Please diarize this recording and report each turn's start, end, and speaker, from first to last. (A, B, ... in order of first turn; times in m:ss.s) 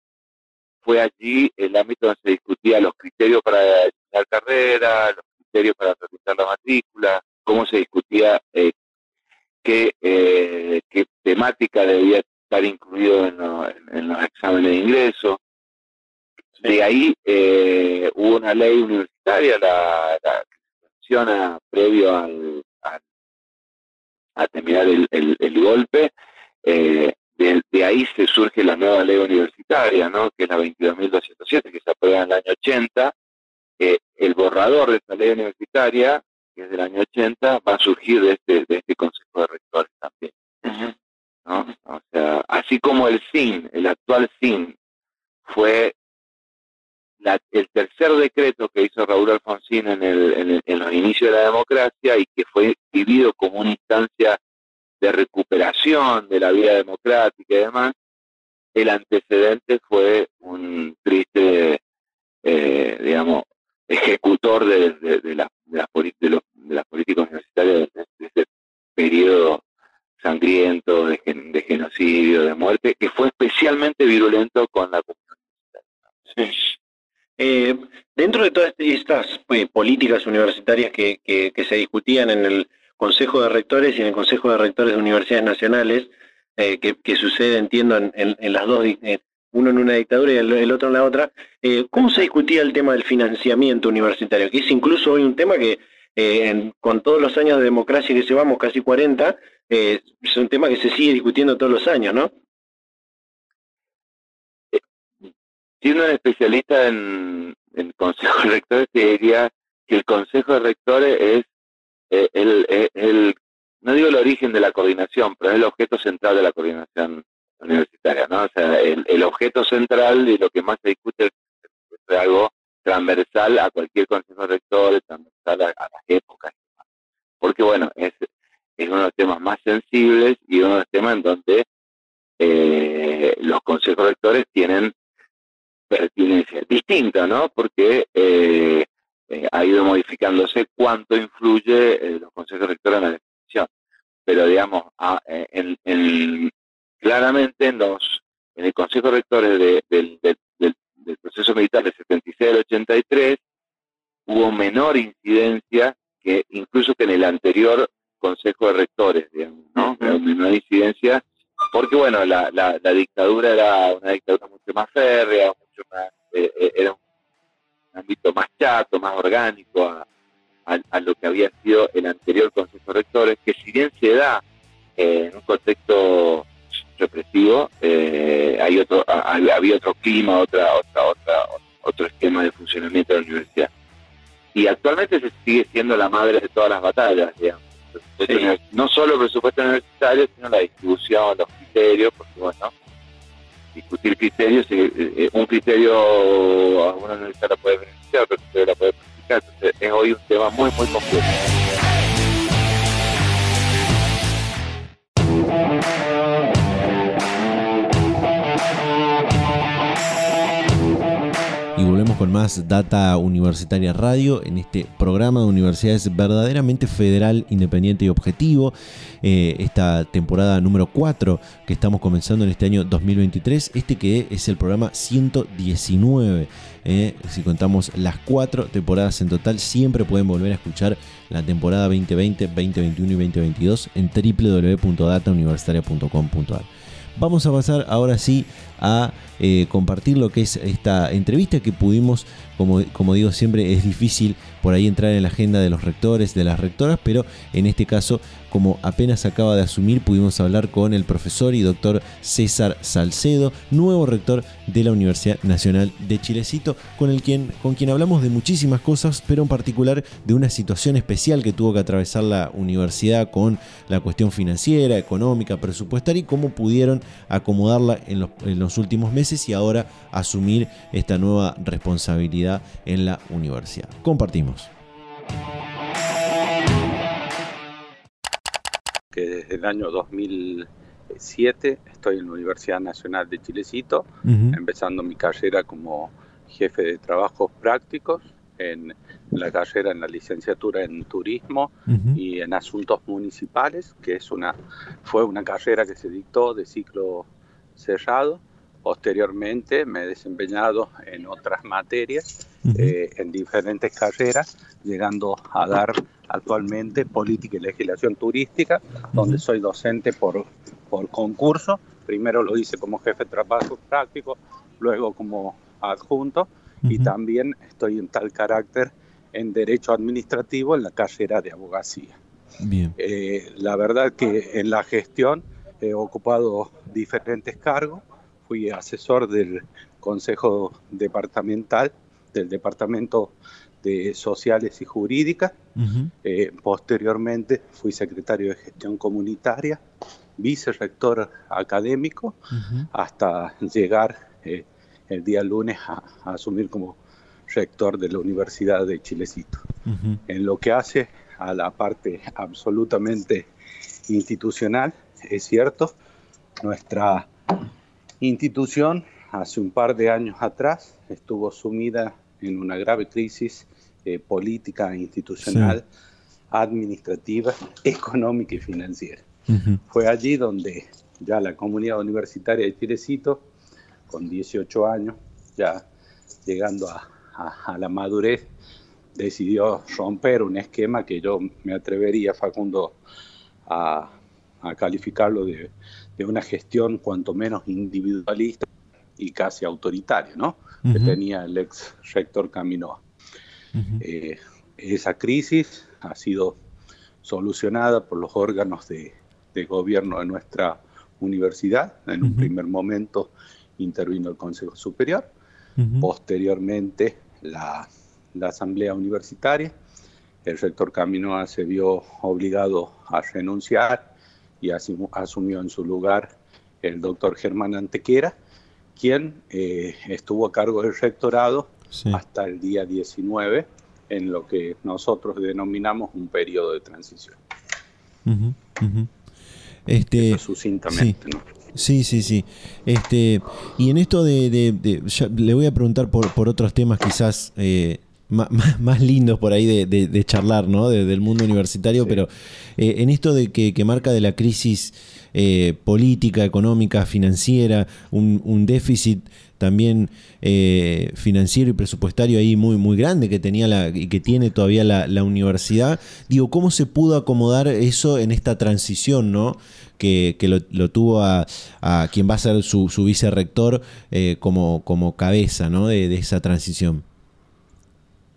0:00.8-0:08.7 A
0:09.6-0:15.4 A
0:16.6-0:20.5 A
0:21.0-0:23.0 A
0:24.4-0:26.1 A
0:26.6-0:33.1 A
0:33.8-0:40.9 A
0:41.5-0:44.8 A
0:45.4-0:45.9 A
0:47.2-0:54.4 A
0:55.0-0:57.9 A
0:58.8-1:01.8 A
1:02.4-1:08.5 A
1:09.0-1:09.6 A
1:10.2-1:15.8 A
1:16.3-1:16.6 B
1:17.4-1:42.3 B
1:45.8-1:51.4 A
1:52.1-2:01.3 A
2:02.0-2:06.6 A
2:07.4-2:08.2 A
2:08.8-2:11.6 A
2:12.4-2:14.9 A
2:15.9-2:23.7 A
2:24.2-2:33.4 A
2:34.3-2:47.0 A
2:47.9-2:50.0 A
2:50.7-2:54.4 A
2:55.0-3:03.7 A
3:04.6-3:12.7 A
3:13.7-3:21.4 A
3:31.8-4:34.7 C
4:39.1-5:22.2 D
4:44.2-4:44.6 C
4:51.9-4:52.2 C
5:02.7-5:03.0 C
5:09.2-5:09.4 C
5:16.8-5:17.1 C
5:22.6-5:23.0 C
5:23.0-5:35.6 D
5:35.8-5:36.1 C
5:36.2-5:39.8 D
5:40.4-5:42.4 D
5:42.6-5:42.9 C
5:42.9-5:47.0 D
5:47.5-5:49.6 D
5:49.9-5:50.2 C
5:50.3-5:53.5 D
5:54.1-5:56.0 D
5:56.6-5:57.3 D
5:58.2-6:05.8 D
6:05.4-6:05.8 C
6:06.5-6:09.2 D
6:09.5-6:09.8 C
6:09.9-6:13.4 D
6:14.1-6:15.8 D
6:16.4-6:18.5 D
6:19.2-6:23.0 D
6:23.7-6:28.7 D
6:29.2-6:33.0 D
6:30.9-6:31.2 C
6:33.8-6:34.0 C
6:34.0-6:36.6 D
6:37.2-6:45.3 D
6:42.2-6:42.5 C
6:45.8-6:46.1 C
6:46.0-6:49.7 D
6:50.4-6:54.1 D
6:54.6-6:56.3 D
6:56.8-6:58.3 D
6:59.0-7:07.4 D
7:01.9-7:02.2 C
7:08.2-7:09.1 C
7:09.9-7:11.2 C
7:10.2-7:11.5 D
7:11.7-7:47.0 C